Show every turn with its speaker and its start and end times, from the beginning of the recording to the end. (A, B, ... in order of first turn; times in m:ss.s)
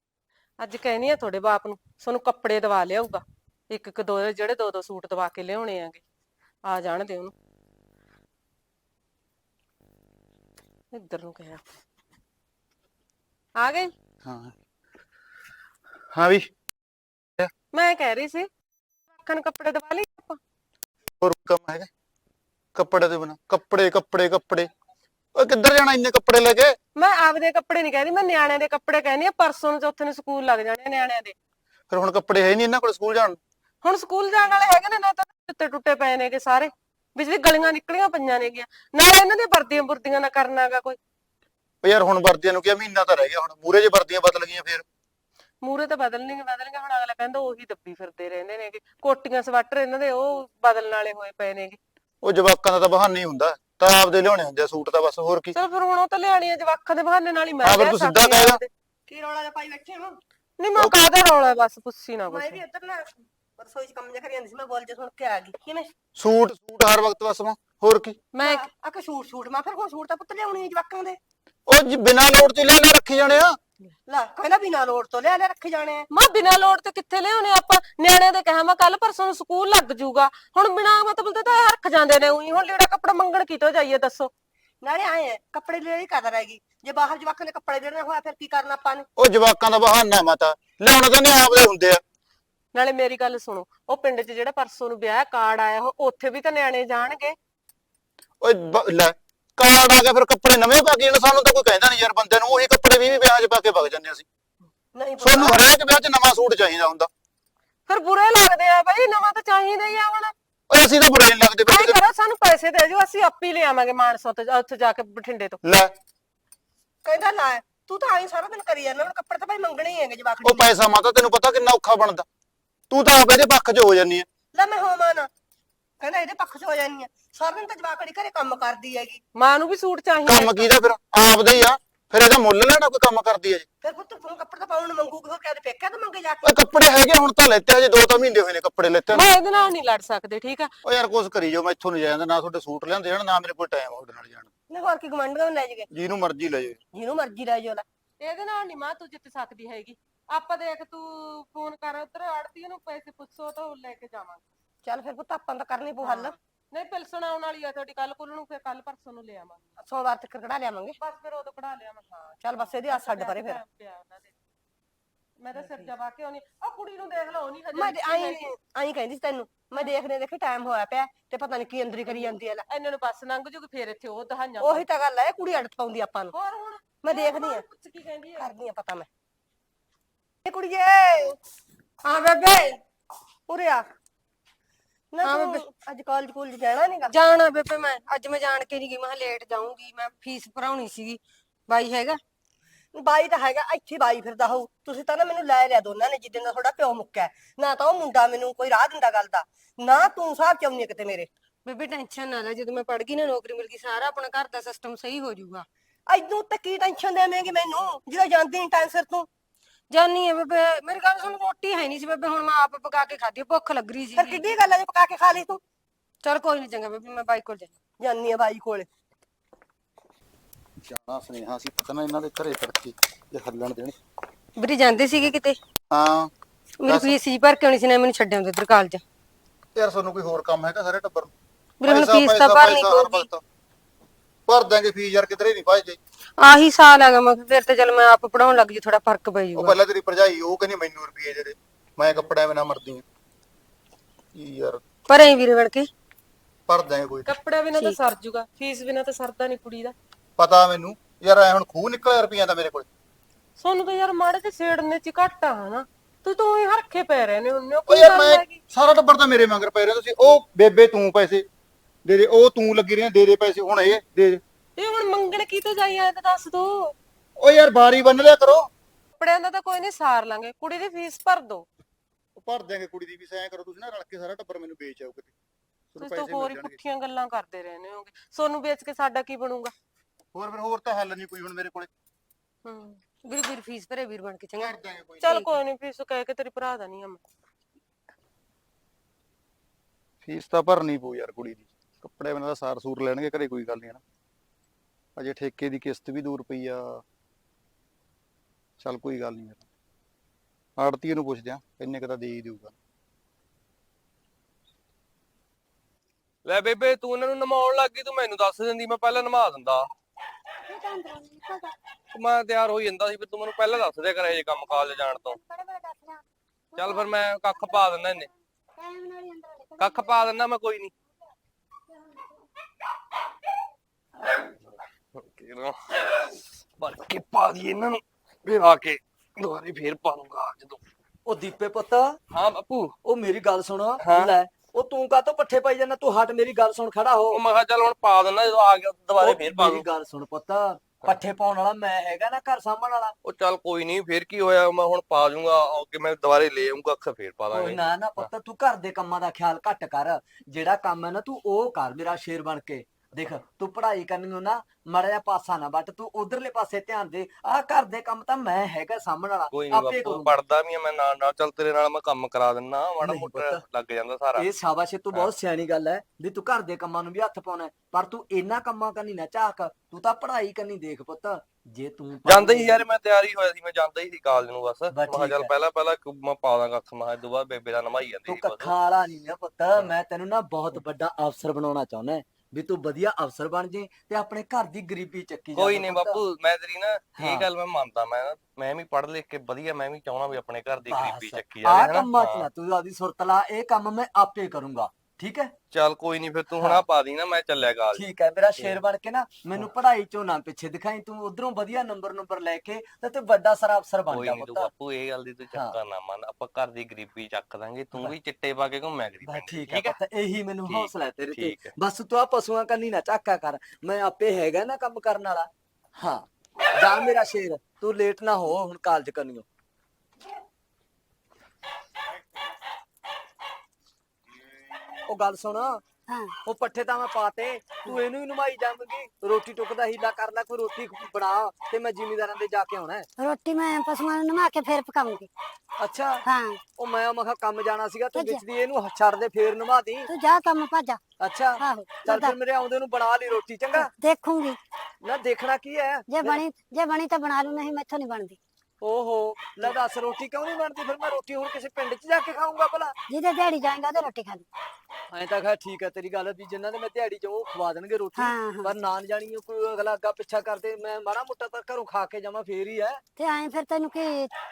0:00.6-0:06.0 A
0:06.6-0:07.3 A
0:10.9-0:11.6 A
0:13.6-0:13.9 A
0:14.2-0:14.5 B
0:16.1-0:16.5 B
0:17.7-0:18.5 A
0:19.1-0:20.4 A
0:21.2-0:21.9 B
0:22.7-0:24.7 B
0:25.3-0:26.8 B
0:27.0-0:31.3 A
0:31.9-0:33.4 B
0:33.8-0:41.0 A
0:41.8-0:44.8 B
0:45.6-0:51.8 A
0:52.2-0:55.5 B
0:55.5-0:58.7 A
0:57.6-0:58.6 B
0:59.1-1:00.2 C
1:00.6-1:02.6 A
1:02.3-1:03.0 C
1:03.6-1:05.9 C
1:06.2-1:08.2 B
1:08.3-1:08.7 A
1:08.4-1:11.2 C
1:11.7-1:13.6 B
1:14.1-1:16.1 C
1:16.1-1:24.3 A
1:24.8-1:29.0 C
1:29.2-1:32.0 B
1:32.7-1:37.4 A
1:38.4-1:44.2 B
1:44.9-1:45.6 C
1:45.2-1:47.1 B
1:47.9-1:50.3 A
1:50.7-1:52.0 B
1:51.7-1:55.6 A
1:55.6-1:55.9 B
1:57.0-2:00.7 C
2:00.4-2:02.2 B
2:02.9-2:04.2 B
2:04.5-2:05.3 C
2:06.0-2:09.2 C
2:09.3-2:10.7 A
2:10.2-2:13.6 B
2:13.8-2:16.5 C
2:16.4-2:19.3 B
2:19.1-2:20.7 A
2:20.8-2:24.5 B
2:24.7-2:25.9 C
2:25.9-2:26.8 B
2:26.9-2:27.8 C
2:28.2-2:34.4 A
2:34.8-2:36.3 C
2:36.0-2:39.6 A
2:39.8-2:41.0 C
2:41.0-2:44.3 A
2:42.4-2:43.6 C
2:45.4-2:48.4 A
2:45.5-2:45.9 C
2:47.7-2:52.6 C
2:52.0-2:54.9 A
2:54.6-2:56.3 C
2:56.3-2:58.5 A
2:57.0-2:57.6 C
2:58.4-2:59.1 C
3:00.4-3:01.4 C
3:02.0-3:02.8 D
3:03.5-3:03.9 C
3:05.1-3:07.2 C
3:07.1-3:12.2 D
3:12.9-3:21.3 C
3:21.6-3:25.6 D
3:26.1-3:29.3 C
3:29.9-3:34.4 D
3:34.1-3:35.6 C
3:36.2-3:37.7 D
3:38.0-3:38.9 C
3:40.9-3:44.0 B
3:44.6-3:45.6 D
3:45.9-3:46.3 B
3:46.8-3:49.0 D
3:46.8-3:47.2 B
3:49.7-3:51.3 B
3:51.8-3:53.2 D
3:51.8-3:53.4 B
3:54.5-3:56.0 B
3:56.4-3:59.7 D
3:59.5-4:03.0 B
4:04.3-4:04.8 B
4:05.1-4:05.9 D
4:06.7-4:07.3 B
4:07.2-4:09.9 A
4:10.4-4:12.9 B
4:13.6-4:18.6 A
4:17.9-4:21.4 B
4:22.0-4:24.4 B
4:24.8-4:27.0 A
4:27.4-4:28.7 B
4:29.2-4:31.7 A
4:32.4-4:35.3 B
4:35.9-4:36.8 B
4:36.0-4:39.7 A
4:40.3-4:41.9 B
4:42.6-4:43.0 A
4:43.2-4:44.7 D
4:44.6-4:45.4 B
4:45.2-4:47.2 A
4:50.2-4:54.0 B
4:55.2-4:57.0 B
4:58.8-4:59.6 B
5:00.8-5:02.7 B
5:06.4-5:09.9 E
5:10.7-5:11.7 F
5:12.1-5:15.4 E
5:15.1-5:16.2 F
5:16.7-5:17.8 F
5:16.8-5:18.3 E
5:18.8-5:20.3 F
5:19.8-5:20.9 E
5:24.7-5:30.8 E
5:31.2-5:32.2 G
5:32.3-5:32.9 E
5:33.0-5:37.4 G
5:34.0-5:34.3 E
5:37.3-5:39.8 E
5:39.2-5:43.1 G
5:43.2-5:48.3 E
5:47.5-6:00.4 G
5:59.5-6:04.5 E
6:03.0-6:03.6 G
6:04.3-6:12.9 G
6:12.2-6:18.7 E
6:14.9-6:15.5 G
6:18.3-6:26.2 G
6:25.5-6:32.5 E
6:27.2-6:27.5 G
6:30.9-6:35.5 G
6:35.7-6:38.8 E
6:36.5-6:36.8 G
6:37.9-6:44.7 G
6:44.1-6:50.0 E
6:45.5-6:45.8 G
6:49.2-6:59.4 G
6:50.6-6:51.7 E
7:05.0-7:05.8 G
7:06.1-7:06.3 F
7:06.4-7:13.1 G
7:13.2-7:15.3 F
7:15.8-7:16.2 G
7:16.2-7:16.6 F
7:16.7-7:20.1 G
7:18.1-7:18.4 F
7:20.1-7:21.0 F
7:21.2-7:23.9 G
7:21.6-7:22.4 F
7:23.7-7:24.6 F
7:25.0-7:26.4 G
7:26.1-7:28.4 F
7:28.8-7:32.9 G
7:33.1-7:34.4 F
7:35.1-7:43.0 G
7:38.1-7:38.7 F
7:43.2-7:44.3 F